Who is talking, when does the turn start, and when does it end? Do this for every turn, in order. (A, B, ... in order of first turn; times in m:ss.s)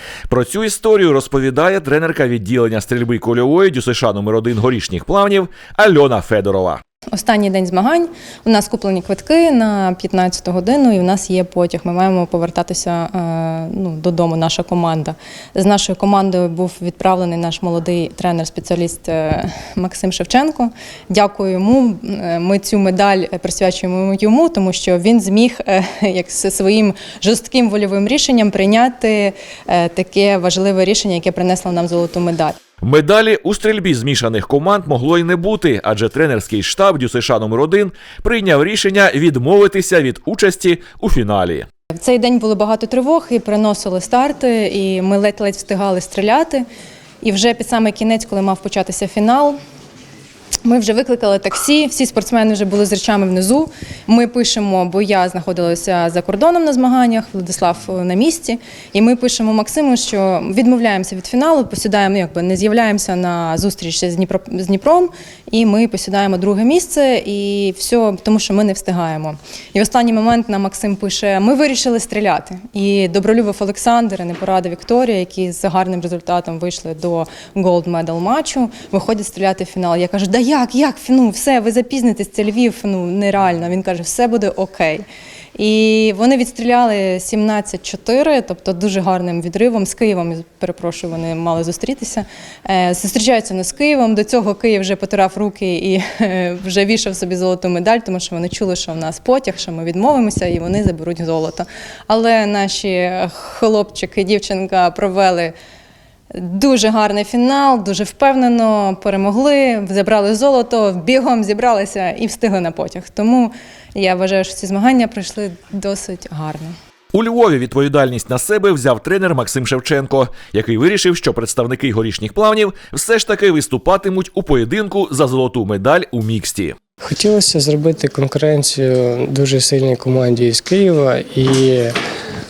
0:00.3-0:06.8 A
0:07.1-0:32.6 B
0:32.8-0:41.7 A
0:41.9-0:46.6 B
0:47.2-0:49.6 B
0:50.6-1:25.0 B
1:25.6-1:45.5 B
1:46.3-1:56.8 B
1:57.1-2:06.8 A
2:07.0-2:12.0 C